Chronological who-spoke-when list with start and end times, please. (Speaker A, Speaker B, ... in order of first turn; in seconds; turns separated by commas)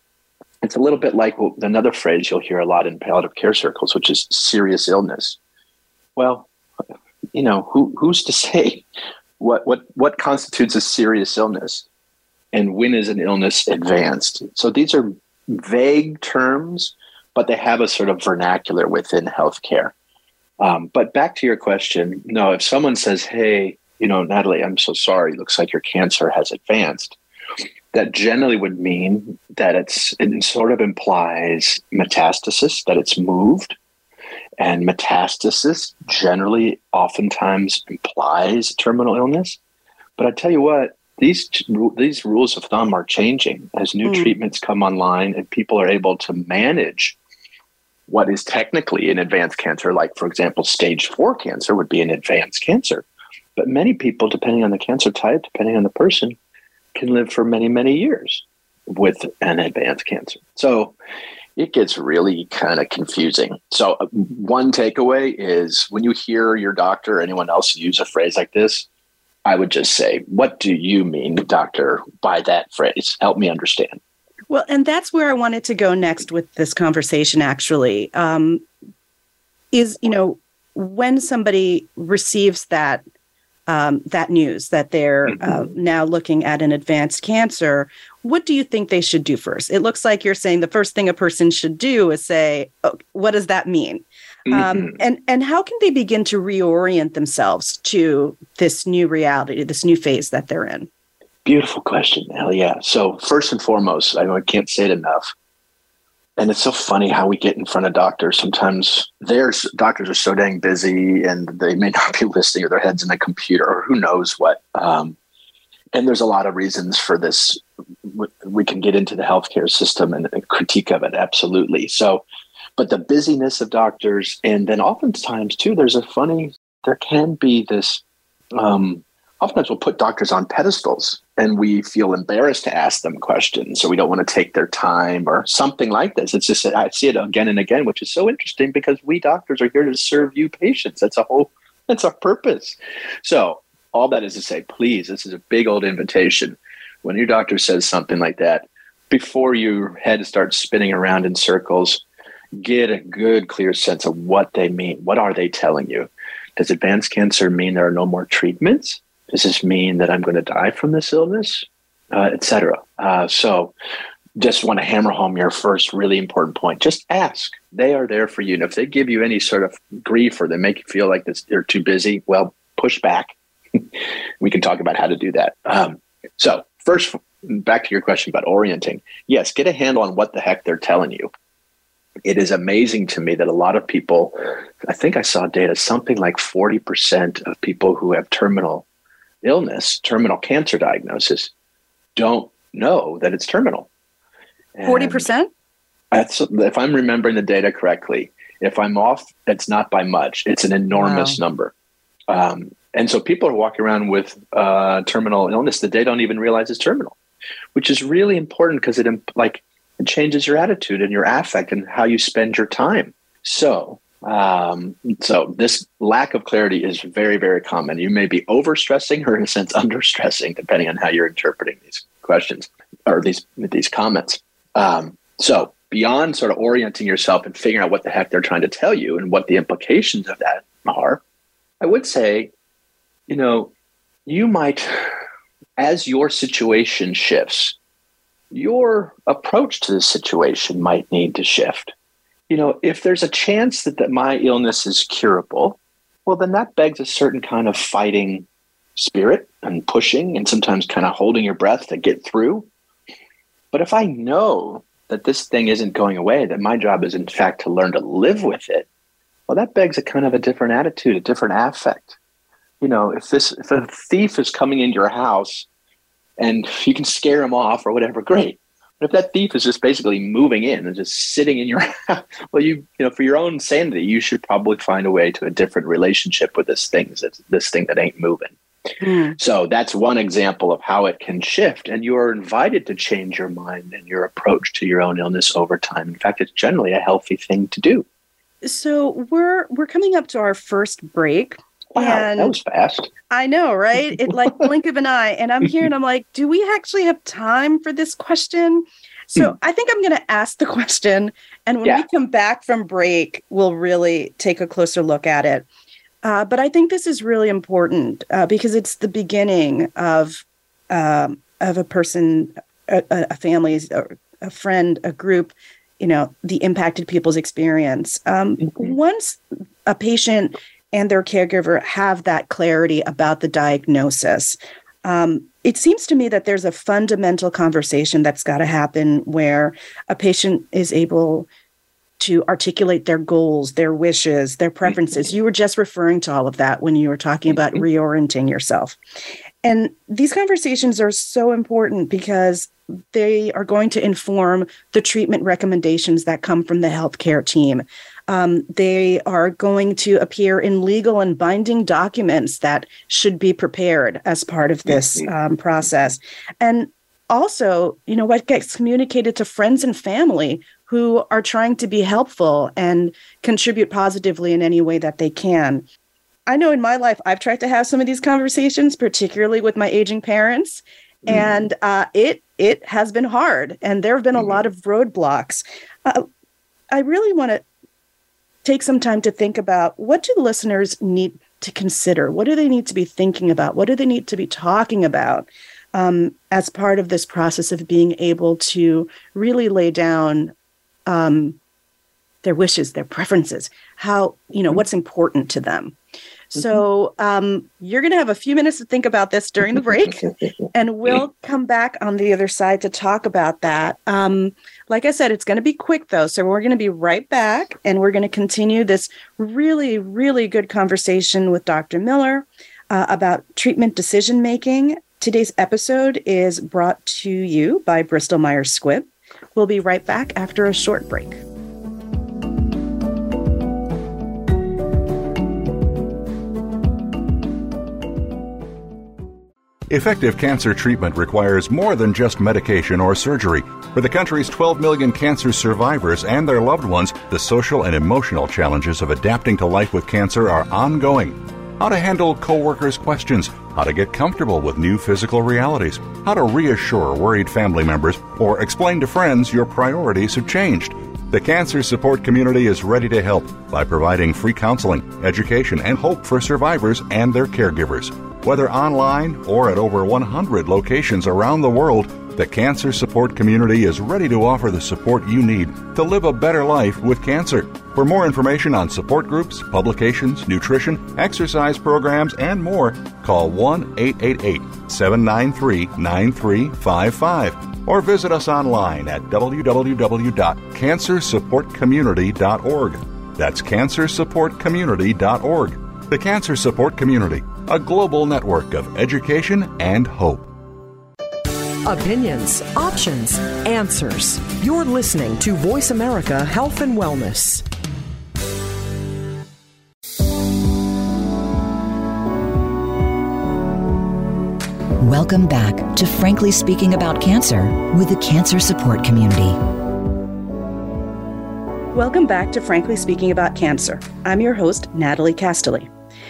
Speaker A: 0.6-5.4, Speaker A: 6.2-6.5, Speaker A: 7.3-8.9, Speaker A: 9.4-11.8, Speaker A: 12.5-19.9, Speaker A: 20.6-27.2, Speaker A: 27.9-33.8, Speaker A: 34.6-39.6, Speaker A: 40.2-47.2, Speaker B: 44.0-44.3, Speaker A: 48.1-53.0, Speaker A: 53.5-56.4, Speaker A: 56.9-61.0, Speaker A: 61.5-68.9, Speaker A: 69.4-74.0, Speaker B: 74.5-78.7, Speaker B: 79.7-83.0, Speaker B: 83.7-100.9, Speaker A: 94.5-95.0, Speaker A: 101.4-105.3, Speaker A: 106.4-115.2, Speaker A: 115.9-122.2, Speaker A: 122.8-128.0, Speaker A: 128.5-152.0, Speaker A: 152.5-163.7, Speaker A: 164.4-181.3, Speaker A: 182.2-188.8, Speaker A: 189.4-191.5, Speaker A: 192.2-193.9, Speaker A: 194.7-195.3, Speaker B: 194.8-195.5, Speaker A: 196.1-201.7, Speaker B: 200.9-201.4, Speaker A: 202.3-207.2, Speaker A: 207.7-231.2, Speaker A: 231.8-232.5, Speaker A: 233.3-233.7, Speaker A: 234.2-235.1, Speaker A: 235.8-237.8, Speaker A: 238.5-241.9, Speaker A: 242.5-252.7, Speaker A: 253.7-258.9, Speaker A: 259.5-262.2, Speaker A: 262.8-265.7, Speaker A: 266.4-278.5, Speaker B: 279.0-279.4, Speaker A: 279.4-288.1, Speaker B: 288.6-292.6, Speaker A: 291.9-293.1, Speaker B: 293.3-305.7, Speaker B: 306.2-331.5, Speaker B: 332.2-339.0, Speaker B: 339.6-365.9, Speaker B: 366.5-376.2, Speaker A: 371.3-371.5, Speaker B: 376.9-377.6, Speaker B: 378.6-390.5, Speaker B: 391.1-391.6, Speaker B: 392.4-396.0, Speaker B: 396.5-421.4, Speaker C: 429.9-490.5, Speaker D: 491.8-497.6, Speaker E: 505.0-509.6, Speaker B: 511.9-515.9